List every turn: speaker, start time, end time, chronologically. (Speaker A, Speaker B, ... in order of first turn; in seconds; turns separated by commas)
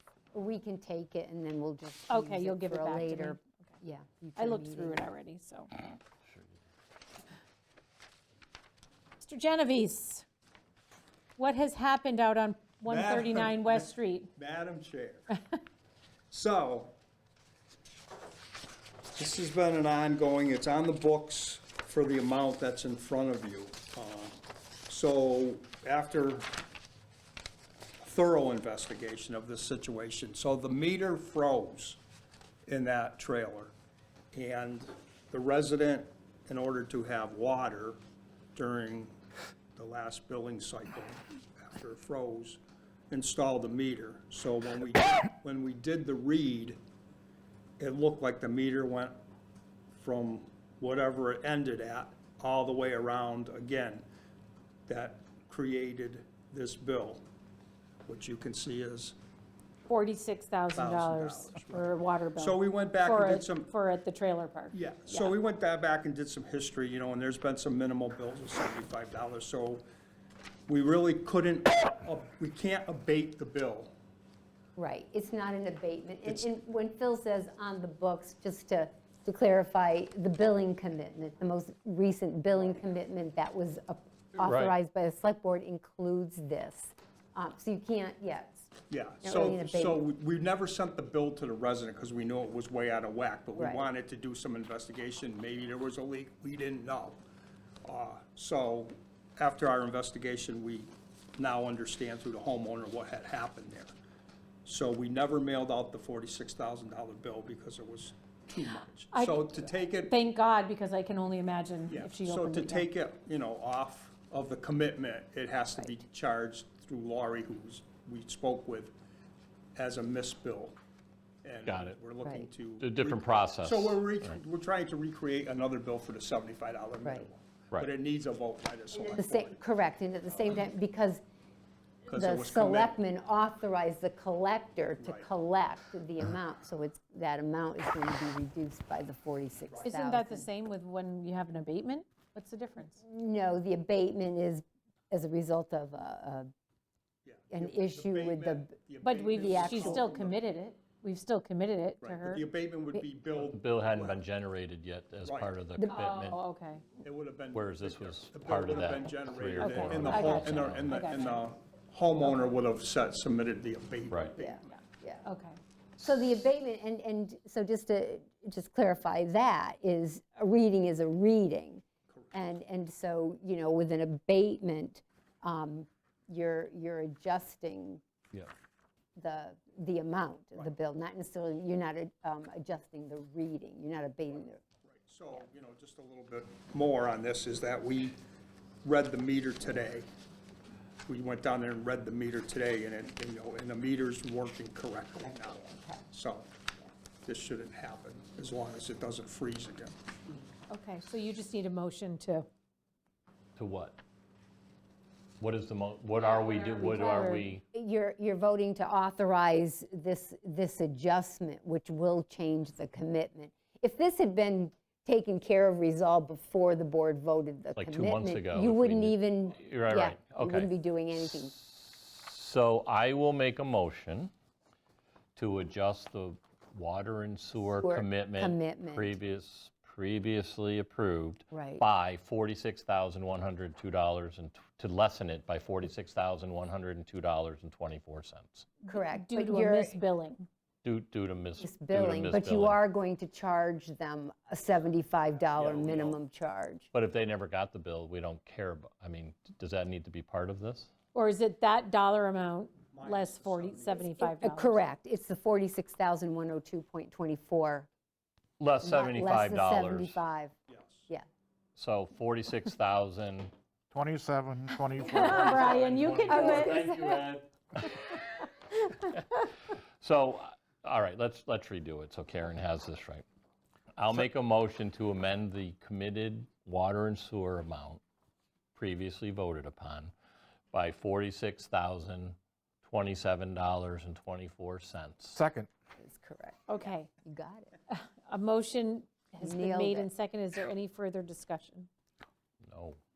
Speaker A: 0.3-5.0, Speaker B: 2.1-3.4, Speaker B: 4.4-5.7, Speaker B: 9.2-10.2, Speaker B: 11.4-14.3, Speaker C: 12.8-15.4, Speaker C: 16.3-16.9, Speaker C: 19.1-26.5, Speaker C: 28.0-32.0, Speaker C: 32.7-33.7, Speaker C: 34.3-38.0, Speaker C: 38.5-39.1, Speaker C: 39.8-46.8, Speaker C: 47.8-49.2, Speaker C: 49.9-54.0, Speaker C: 54.9-57.2, Speaker C: 58.0-59.1, Speaker B: 59.9-64.8, Speaker C: 60.7-63.7, Speaker C: 64.7-69.8, Speaker C: 70.7-73.9, Speaker A: 74.8-88.7, Speaker D: 84.4-84.7, Speaker C: 88.9-97.2, Speaker A: 89.2-90.0, Speaker A: 93.6-93.9, Speaker C: 97.8-103.9, Speaker C: 104.7-110.1, Speaker B: 109.1-112.9, Speaker C: 111.9-118.9, Speaker C: 119.7-120.8, Speaker C: 121.4-129.6, Speaker D: 121.7-122.0, Speaker D: 122.8-124.3, Speaker A: 128.9-131.2, Speaker C: 132.1-132.9, Speaker A: 132.1-140.5, Speaker B: 139.8-143.0, Speaker A: 143.0-146.5, Speaker C: 147.2-150.4, Speaker A: 147.5-150.1, Speaker B: 149.0-152.4, Speaker C: 152.0-154.2, Speaker D: 153.3-156.4, Speaker C: 155.2-155.5, Speaker B: 155.9-156.8, Speaker C: 157.0-164.6, Speaker D: 157.5-161.0, Speaker B: 159.6-161.5, Speaker A: 164.4-165.2, Speaker B: 164.7-165.6, Speaker A: 166.0-178.0, Speaker A: 179.2-184.6, Speaker C: 184.8-188.2, Speaker C: 188.8-190.1, Speaker C: 191.1-196.5, Speaker A: 195.2-196.1, Speaker C: 197.2-199.9, Speaker B: 200.7-202.5, Speaker D: 203.6-204.0, Speaker D: 205.4-207.6, Speaker B: 206.2-207.4, Speaker A: 206.8-221.5, Speaker D: 217.8-220.7, Speaker D: 221.6-224.3, Speaker D: 225.3-238.7, Speaker A: 227.6-229.2, Speaker A: 231.5-231.8, Speaker A: 238.8-240.0, Speaker B: 238.9-240.5, Speaker D: 240.8-242.8, Speaker A: 241.6-246.9, Speaker D: 245.6-246.2, Speaker D: 246.9-250.9, Speaker B: 251.1-254.8, Speaker C: 252.9-254.1, Speaker A: 254.2-257.9, Speaker D: 258.6-260.2, Speaker A: 258.8-260.5, Speaker C: 260.7-261.1, Speaker D: 261.8-263.5, Speaker E: 263.9-265.6, Speaker B: 265.1-266.9, Speaker D: 265.1-268.1, Speaker A: 266.2-267.2, Speaker D: 270.0-273.2, Speaker D: 273.9-278.0, Speaker D: 278.7-280.1, Speaker D: 280.7-285.4, Speaker E: 285.3-285.7, Speaker A: 286.0-287.7, Speaker B: 286.7-287.1, Speaker B: 287.9-291.9, Speaker A: 289.4-290.1, Speaker D: 292.6-293.0